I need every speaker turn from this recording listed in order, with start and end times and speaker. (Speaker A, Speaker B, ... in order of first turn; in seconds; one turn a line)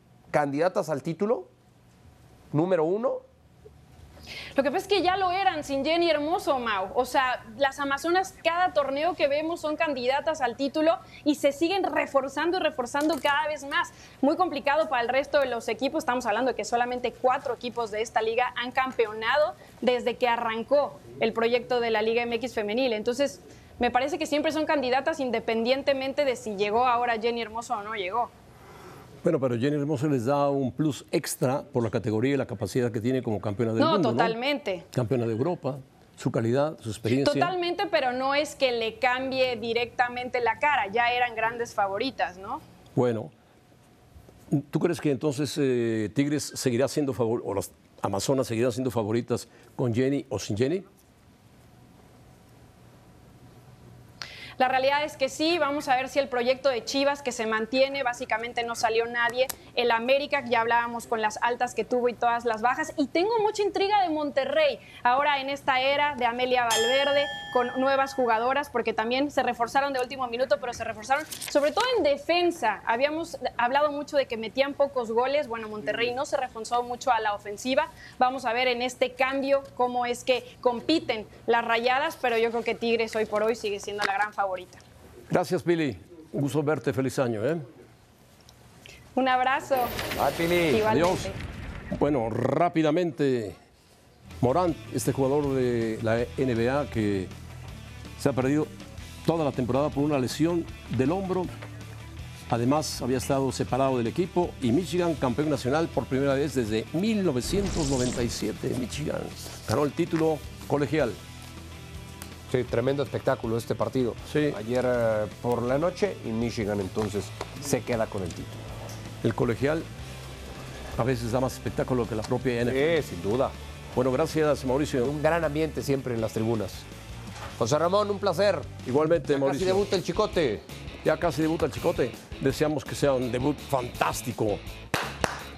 Speaker A: 0.3-1.5
Speaker A: 2.5-3.2
Speaker B: 4.5-28.3
Speaker C: 29.2-34.4
Speaker B: 33.8-34.9
Speaker C: 34.9-37.5
Speaker B: 37.1-42.6
Speaker C: 43.0-43.3
Speaker C: 44.5-50.8
Speaker B: 54.6-84.8
Speaker C: 85.3-87.7
Speaker B: 89.1-90.0
Speaker A: 90.1-90.8
Speaker B: 90.7-91.4
Speaker C: 90.9-91.3
Speaker C: 91.9-93.6
Speaker C: 94.4-97.3
Speaker C: 98.2-98.7
Speaker C: 99.2-101.5
Speaker C: 102.5-111.2
Speaker A: 112.5-118.6
Speaker C: 114.2-114.6
Speaker C: 119.2-119.9
Speaker C: 121.0-123.0
Speaker A: 122.7-123.5
Speaker C: 123.9-125.1
Speaker A: 125.0-126.8
Speaker A: 127.6-130.6
Speaker C: 128.8-129.8
Speaker C: 131.0-134.6